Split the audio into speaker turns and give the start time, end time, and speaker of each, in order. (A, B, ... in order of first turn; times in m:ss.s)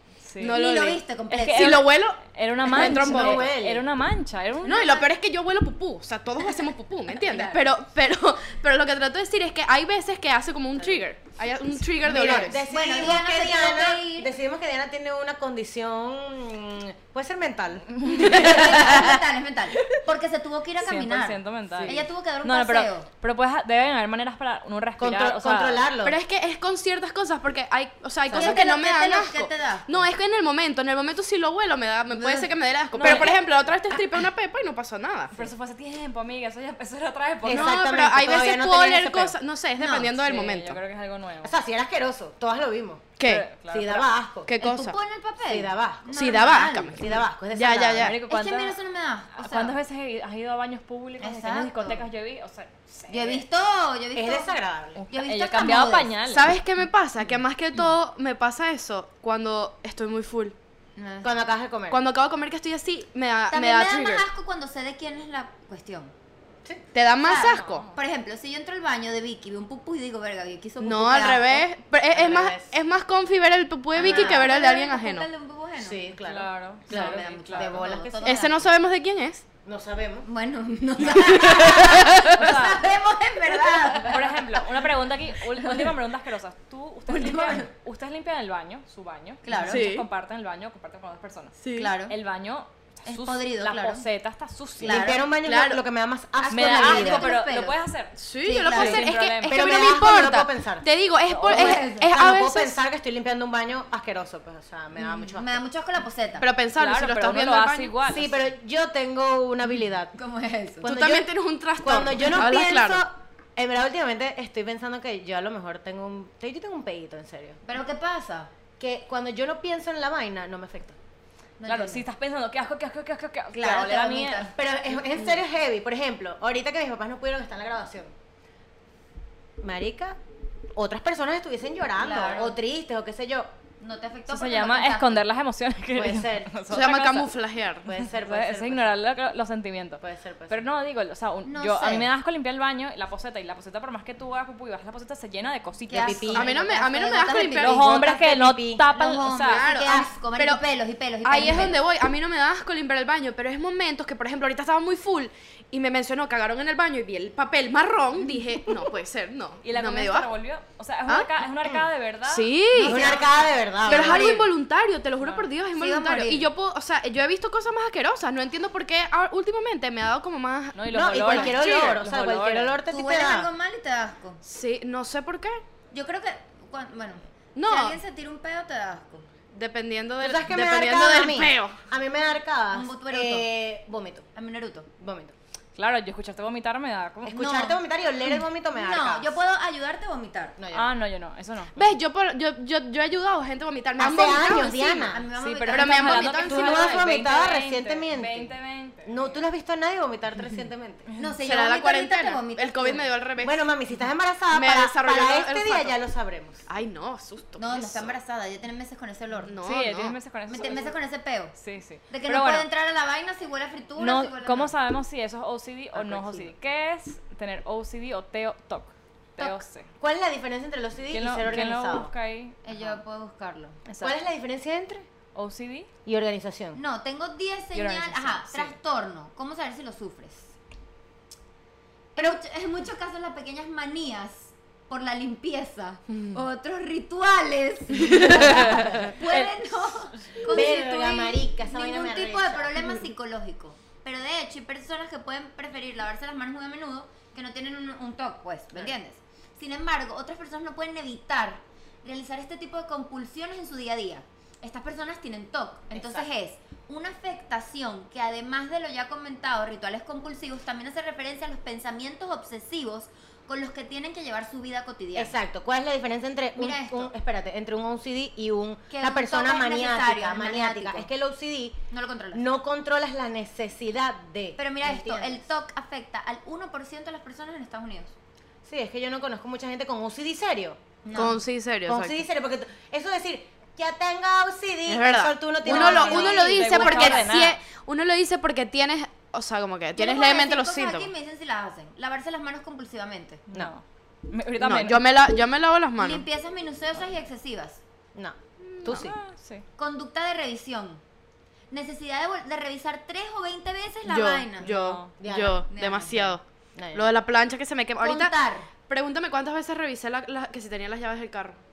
0:00.2-0:00.6 A
0:00.4-0:03.5 B
0:00.4-0:01.8 C
0:01.3-0:05.0 A
0:02.6-0:03.8 D
0:04.6-0:12.6 B
0:04.8-0:05.0 C
0:07.1-0:07.7 C
0:10.8-0:11.0 D
0:12.0-0:19.2 D
0:12.7-0:14.3 C
0:18.0-0:18.8 A
0:18.2-0:23.1 C
0:20.8-0:25.9 A
0:25.0-0:26.2 D
0:26.0-0:35.5 B
0:28.3-0:28.6 D
0:28.3-0:29.9 C
0:32.1-0:33.4 C
0:32.9-0:33.4 A
0:35.3-0:37.8 A
0:37.4-0:39.4 D
0:37.5-0:40.8 B
0:39.8-0:40.2 C
0:40.2-0:41.5 A
0:41.4-0:43.1 D
0:43.2-0:43.5 B
0:43.2-0:44.1 A
0:43.7-0:44.5 D
0:44.5-0:45.0 B
0:44.6-0:47.0 C
0:45.5-0:46.1 D
0:46.1-0:48.2 B
0:46.9-0:48.2 D
0:48.0-0:48.8 A
0:48.3-0:49.8 C
0:49.3-0:53.4 A
0:51.2-0:52.0 C
0:53.1-0:54.6 C
0:54.2-0:55.0 D
0:55.0-0:56.5 A
0:55.1-0:56.1 C
0:56.3-1:00.6 B
1:01.0-1:01.3 C
1:01.2-1:02.0 D
1:01.9-1:04.2 B
1:03.5-1:06.1 C
1:06.9-1:07.9 B
1:07.2-1:11.7 C
1:07.5-1:08.0 A
1:10.8-1:15.3 B
1:12.1-1:12.7 D
1:14.0-1:14.5 D
1:14.0-1:16.0 C
1:15.8-1:18.6 D
1:16.2-1:17.8 A
1:16.9-1:18.6 C
1:18.2-1:19.4 B
1:19.6-1:20.3 D
1:20.2-1:24.6 C
1:22.1-1:22.9 A
1:23.9-1:35.2 A
1:25.6-1:25.9 C
1:27.1-1:27.7 C
1:29.4-1:29.8 C
1:29.6-1:30.0 B
1:31.6-1:31.9 B
1:31.8-1:32.2 C
1:33.0-1:34.1 C
1:34.8-1:35.2 C
1:34.8-1:37.3 D
1:35.4-1:35.8 B
1:36.4-1:37.8 C
1:36.5-1:39.9 A
1:38.2-1:42.8 B
1:38.4-1:39.1 C
1:39.5-1:40.9 D
1:41.3-1:41.8 A
1:41.4-1:42.4 C
1:41.8-1:45.6 D
1:45.0-1:46.5 C
1:46.4-1:48.0 B
1:46.8-1:48.4 A
1:48.1-1:50.1 D
1:50.2-1:50.9 C
1:50.8-1:53.0 B
1:50.8-1:57.6 D
1:52.4-1:52.6 C
1:57.6-1:58.5 C
1:58.8-2:01.0 D
2:01.6-2:02.0 C
2:01.7-2:04.5 A
2:03.5-2:04.6 C
2:04.6-2:08.1 D
2:09.6-2:10.2 D
2:10.8-2:13.5 D
2:12.0-2:12.6 C
2:13.8-2:15.2 C
2:14.3-2:17.3 A
2:16.0-2:16.5 D
2:16.7-2:17.9 B
2:17.8-2:19.0 D
2:18.1-2:26.3 A
2:20.0-2:20.6 D
2:21.4-2:22.1 C
2:25.9-2:27.8 C
2:25.9-2:26.5 D
2:26.3-2:27.9 B
2:27.6-2:29.7 A
2:27.6-2:28.8 D
2:28.9-2:31.8 C
2:29.4-2:30.6 B
2:29.8-2:30.1 D
2:31.2-2:40.3 B
2:39.6-2:42.5 A
2:42.3-2:43.2 B
2:42.7-2:44.4 C
2:42.8-2:44.4 D
2:43.8-2:52.0 B
2:45.2-2:45.5 A
2:45.7-2:46.5 C
2:50.7-2:52.8 A
2:50.9-2:53.5 D
2:52.9-2:54.4 C
2:54.4-2:55.6 B
2:55.9-2:59.2 C
2:57.6-2:58.0 B
2:59.5-3:01.8 B
3:00.2-3:04.3 D
3:02.7-3:03.5 C
3:04.4-3:04.9 C
3:05.0-3:05.4 D
3:05.8-3:07.5 A
3:07.2-3:09.4 D
3:07.4-3:07.8 C
3:08.7-3:10.6 C
3:10.6-3:10.9 D
3:10.7-3:11.8 A
3:11.8-3:15.1 B
3:14.0-3:15.2 D
3:15.1-3:17.0 C
3:15.4-3:19.4 A
3:15.7-3:16.7 B
3:16.4-3:18.5 D
3:19.0-3:21.1 D
3:21.2-3:23.1 C
3:21.4-3:23.7 B
3:23.4-3:26.6 D
3:24.5-3:26.0 B
3:26.7-3:28.2 B
3:27.6-3:29.5 C
3:29.5-3:30.2 B
3:29.6-3:30.9 A
3:30.5-3:31.6 C
3:31.5-3:32.7 A
3:32.1-3:34.7 C
3:34.0-3:39.9 A
3:36.0-3:36.5 D
3:39.4-3:42.1 D
3:41.1-3:43.0 A
3:42.6-3:43.8 C
3:43.9-3:44.2 A
3:44.0-3:45.1 D
3:45.4-3:45.9 A
3:46.0-3:46.8 D
3:46.7-3:50.5 C
3:47.7-3:48.8 A
3:52.2-4:25.4 C
3:58.1-3:59.9 A
3:58.6-3:58.9 D
4:00.4-4:02.8 D
4:15.9-4:16.3 D
4:25.2-4:31.8 D
4:26.6-4:27.1 C
4:28.9-4:31.1 C
4:31.9-4:32.5 C
4:32.3-4:35.5 D
4:34.6-4:38.1 C
4:38.6-4:41.3 D
4:41.0-4:41.4 C
4:41.1-4:42.2 B
4:41.8-4:47.3 D
4:44.9-4:51.1 B
4:45.7-4:47.6 A
4:45.8-4:47.2 C
4:50.0-4:53.4 C
4:53.5-4:55.0 A
4:54.6-4:56.3 B
4:56.0-4:57.8 C
4:58.2-4:59.2 D
4:58.7-4:59.0 B
4:58.9-4:59.6 A
4:59.8-5:01.0 C
5:01.7-5:04.7 C
5:04.1-5:08.3 B
5:04.6-5:05.1 A
5:05.2-5:05.7 D
5:05.7-5:06.4 C
5:06.8-5:07.1 D
5:08.0-5:08.7 C
5:08.9-5:11.6 B